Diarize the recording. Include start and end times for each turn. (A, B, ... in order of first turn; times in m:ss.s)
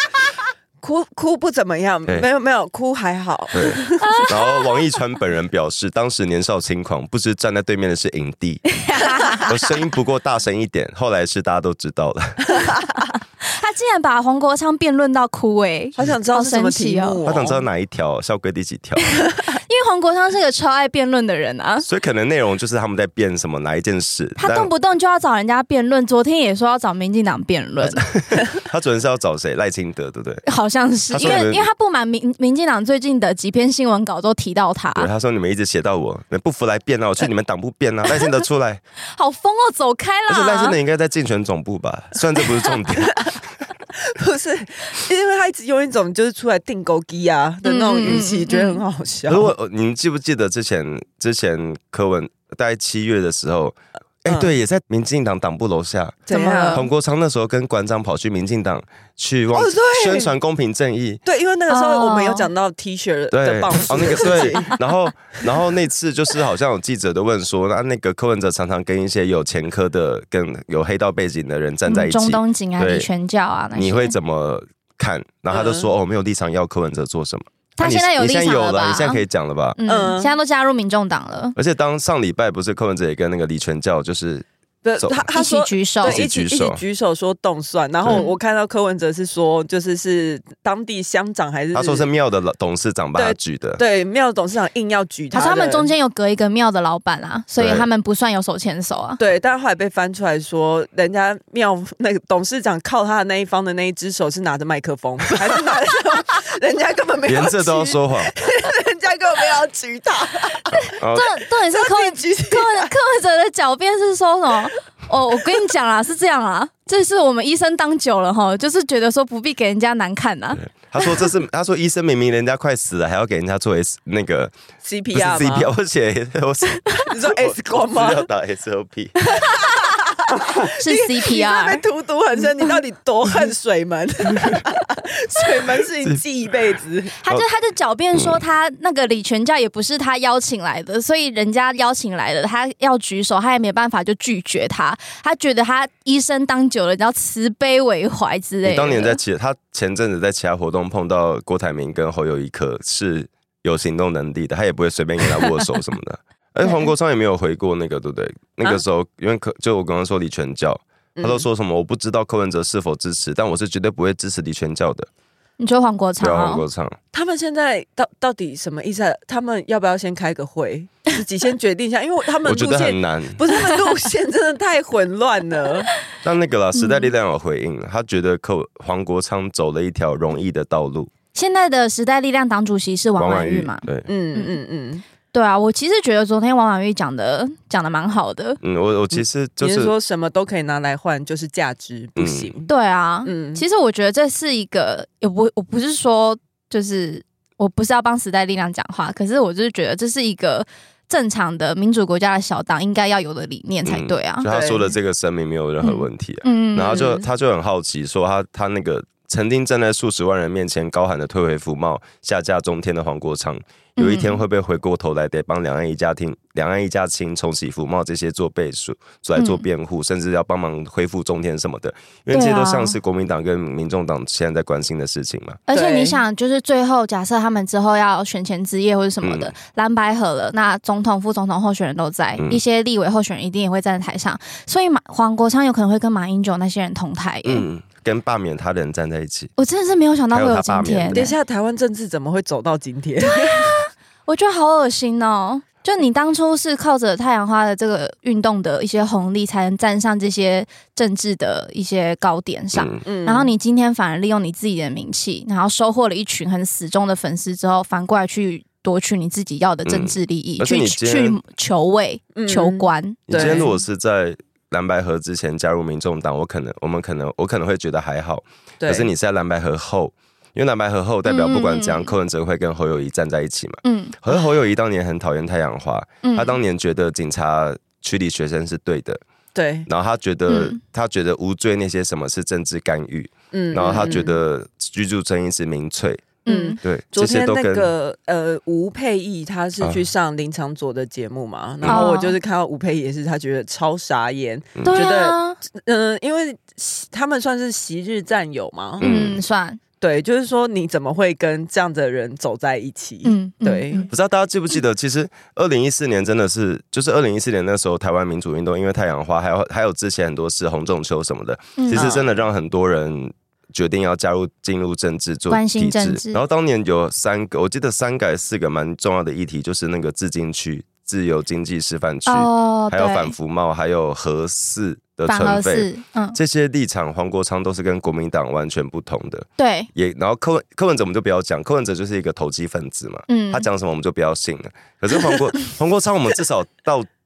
0:00.8-0:04.2 A
0:03.5-0:08.6 B
0:04.0-0:04.7 C
0:08.7-0:09.5 C
0:09.4-0:12.5 B
0:13.4-0:17.2 C
0:16.0-0:17.6 A
0:17.2-0:19.2 B
0:19.2-0:21.9 C
0:21.8-0:24.7 B
0:24.4-0:28.1 C
0:27.8-0:30.4 B
0:30.4-0:35.1 C
0:31.1-0:31.7 B
0:34.9-0:38.8 B
0:39.1-0:40.8 C
0:40.3-0:43.3 B
0:44.0-0:49.5 A
0:47.6-0:48.8 C
0:49.3-1:01.2 B
0:54.2-0:54.5 A
0:56.3-0:56.9 A
0:56.3-0:56.8 C
0:59.5-1:00.3 A
1:01.2-1:04.8 A
1:01.7-1:02.5 C
1:03.3-1:13.1 B
1:11.9-1:14.1 C
1:13.7-1:19.8 B
1:15.5-1:15.9 A
1:17.8-1:19.2 C
1:19.8-1:21.6 C
1:19.9-1:20.3 A
1:21.6-1:24.4 B
1:24.8-1:32.1 A
1:25.0-1:25.3 B
1:25.3-1:26.2 C
1:26.0-1:26.8 B
1:31.7-1:33.8 B
1:33.1-1:35.9 A
1:35.3-1:39.2 C
1:37.6-1:37.8 B
1:39.2-1:50.8 A
1:47.2-1:48.3 B
1:50.7-2:01.1 C
1:50.9-1:51.3 B
1:51.6-1:52.9 A
2:00.6-2:04.5 B
2:04.8-2:05.7 A
2:05.1-2:09.3 B
2:07.1-2:08.3 A
2:09.3-2:09.7 C
2:09.4-2:17.2 A
2:10.6-2:11.8 C
2:17.2-2:29.2 C
2:28.6-2:45.1 B
2:41.2-2:41.4 A
2:45.6-2:46.6 C
2:46.2-2:47.0 B
2:47.1-2:55.9 A
2:52.4-2:53.4 B
2:56.2-3:01.1 B
2:56.7-2:57.1 C
3:01.3-3:04.6 C
3:03.2-3:04.1 B
3:04.1-3:05.0 A
3:05.3-3:08.6 C
3:08.6-3:09.9 B
3:09.6-3:12.7 A
3:12.2-3:12.5 B
3:12.7-3:24.5 C
3:13.2-3:13.6 A
3:23.8-3:45.6 B
3:24.4-3:24.9 A
3:25.8-3:27.1 C
3:26.9-3:27.2 A
3:34.0-3:34.4 C
3:39.4-3:39.6 C
3:42.3-3:42.9 C
3:45.7-3:57.6 C
3:45.7-3:46.2 A
3:49.2-3:49.5 B
3:57.4-3:59.5 B
3:59.6-4:01.3 C
4:00.3-4:01.3 B
4:01.1-4:03.7 A
4:03.2-4:23.6 C
4:12.7-4:13.0 B
4:13.0-4:13.5 A
4:19.8-4:21.4 B
4:22.3-4:23.7 A
4:23.3-4:39.2 B
4:28.8-4:29.1 A
4:31.2-4:32.1 C
4:33.8-4:34.2 C
4:36.2-4:36.6 C
4:39.5-4:39.9 A
4:39.8-4:47.9 B
4:40.5-4:40.8 C
4:43.5-4:44.4 A
4:46.4-4:46.8 C
4:46.4-4:59.0 A
4:51.8-4:52.1 B
4:51.9-4:52.4 C
4:54.8-4:55.0 B
4:54.8-4:55.6 C
4:59.0-4:59.8 C
4:59.0-4:59.4 B
5:00.0-5:04.1 A
5:03.2-5:04.1 C
5:04.1-5:37.1 B
5:11.8-5:12.0 C
5:11.9-5:12.3 A
5:15.5-5:16.4 C
5:22.3-5:23.3 C
5:25.3-5:26.4 C
5:29.6-5:29.9 C
5:33.3-5:33.7 C